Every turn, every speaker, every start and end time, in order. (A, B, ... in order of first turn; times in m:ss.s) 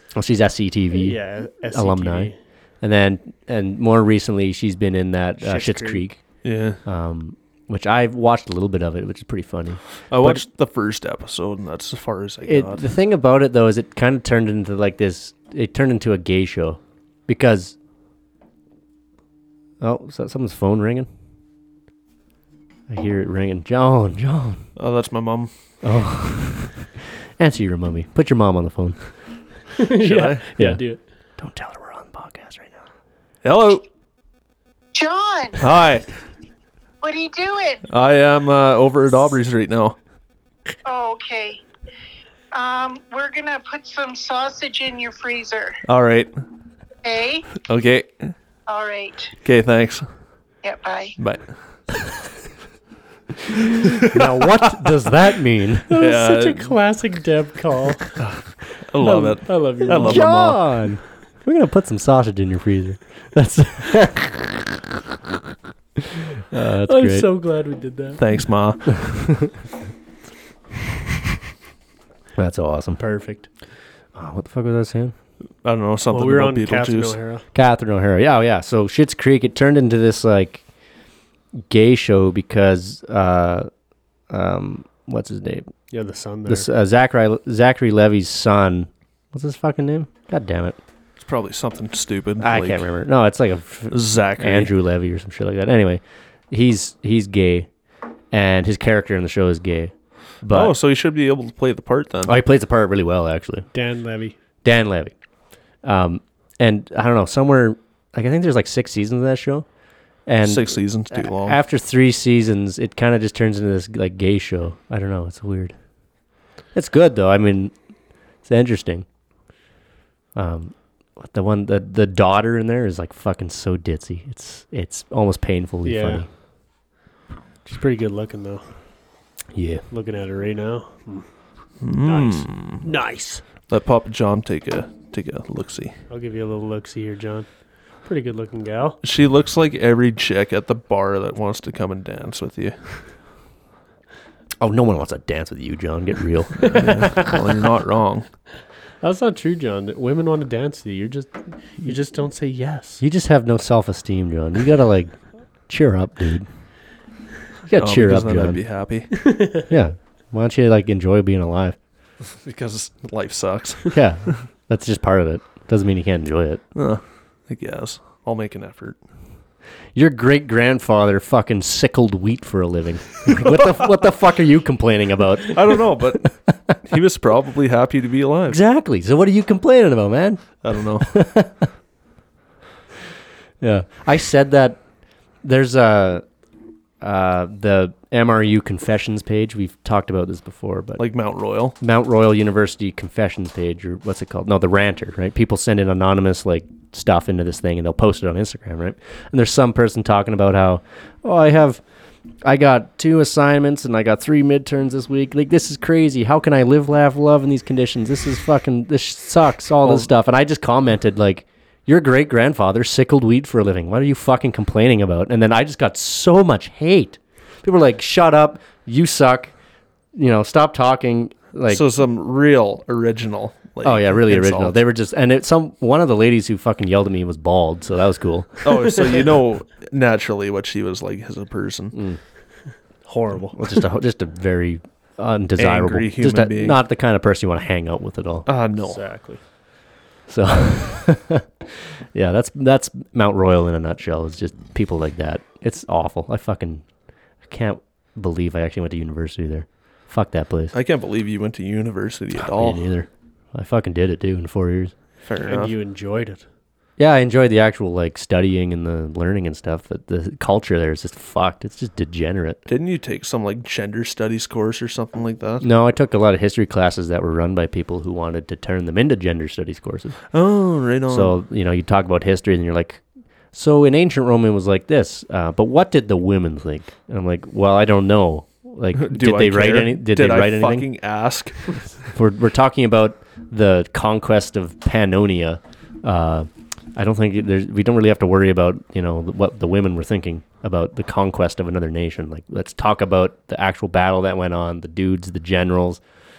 0:00.1-0:06.2 A
0:00.9-0:02.4 B
0:05.4-0:06.0 B
0:06.4-0:06.8 C
0:06.8-0:10.4 A
0:10.1-0:12.8 C
0:12.4-0:17.7 A
0:19.8-0:21.1 A
0:22.9-0:24.6 A
0:24.8-0:25.5 C
0:25.8-0:29.0 A
0:29.8-0:31.0 B
0:30.0-0:30.4 C
0:31.4-0:32.8 A
0:33.4-0:33.8 C
0:34.9-0:35.6 D
0:35.6-0:36.1 C
0:37.0-0:37.8 D
0:37.9-0:40.0 C
0:40.8-0:41.6 D
0:42.5-0:45.8 D
0:45.8-0:46.3 C
0:47.0-0:47.6 D
0:47.6-0:48.3 C
0:48.7-0:49.3 D
0:49.4-0:50.0 C
0:50.6-0:51.2 D
0:51.2-0:51.5 C
0:54.0-0:55.9 A
0:55.9-0:58.2 B
0:56.0-0:56.7 C
0:58.2-1:00.6 C
0:59.0-1:00.3 B
0:59.8-1:04.8 A
1:06.4-1:07.3 A
1:06.8-1:08.2 B
1:08.2-1:09.2 C
1:09.0-1:09.5 A
1:12.4-1:13.0 A
1:13.0-1:13.5 B
1:14.1-1:15.1 A
1:15.6-1:17.2 C
1:16.1-1:17.4 B
1:17.5-1:20.6 A
1:21.7-1:23.7 A
1:24.3-1:25.7 A
1:25.9-1:26.7 B
1:26.5-1:30.8 A
1:31.2-1:32.8 C
1:32.4-1:37.7 A
1:33.9-1:34.7 C
1:38.3-1:40.7 A
1:40.5-1:42.4 C
1:42.2-1:43.7 A
1:43.7-1:44.4 B
1:44.6-1:45.1 A
1:45.8-1:49.6 A
1:50.2-1:55.7 A
1:50.4-1:51.6 C
1:56.7-1:57.7 A
1:58.4-1:59.0 A
2:00.3-2:06.3 A
2:05.8-2:06.2 B
2:07.6-2:08.7 B
2:09.5-2:09.8 A
2:09.9-2:11.3 B
2:11.8-2:12.8 C
2:11.9-2:13.4 B
2:13.7-2:16.0 C
2:16.1-2:19.0 B
2:19.0-2:22.9 C
2:24.6-2:26.8 A
2:26.6-2:28.3 C
2:26.8-2:27.3 B
2:29.0-2:33.0 B
2:33.0-2:36.4 A
2:37.7-2:38.6 A
2:37.7-2:39.1 C
2:39.2-2:39.7 B
2:39.7-2:41.8 A
2:42.4-2:44.0 C
2:43.9-2:46.6 A
2:46.7-2:49.0 C
2:49.9-2:56.8 A
2:55.5-2:58.6 C
2:58.5-3:01.7 A
3:00.6-3:01.2 C
3:03.6-3:04.8 A
3:05.4-3:06.2 A
3:07.0-3:11.0 A
3:11.0-3:11.7 C
3:11.8-3:21.8 A
3:22.4-3:39.5 A
3:40.1-3:41.8 A
3:41.7-3:44.8 C
3:43.8-3:48.6 A
3:48.6-3:52.0 C
3:51.9-3:52.2 A
3:53.0-3:53.7 B
3:53.5-3:58.5 A
3:55.6-3:56.8 C
3:58.4-3:59.0 C
3:58.8-3:59.4 B
4:00.3-4:06.8 A
4:07.4-4:10.7 A
4:10.7-4:12.9 C
4:12.3-4:14.9 A
4:15.2-4:15.7 C
4:15.4-4:16.4 B
4:17.0-4:22.6 A
4:22.7-4:25.7 C
4:25.6-4:30.2 A
4:30.3-4:31.3 C
4:31.1-4:33.0 A
4:33.5-4:40.9 A
4:38.9-4:41.8 C
4:42.1-4:56.0 A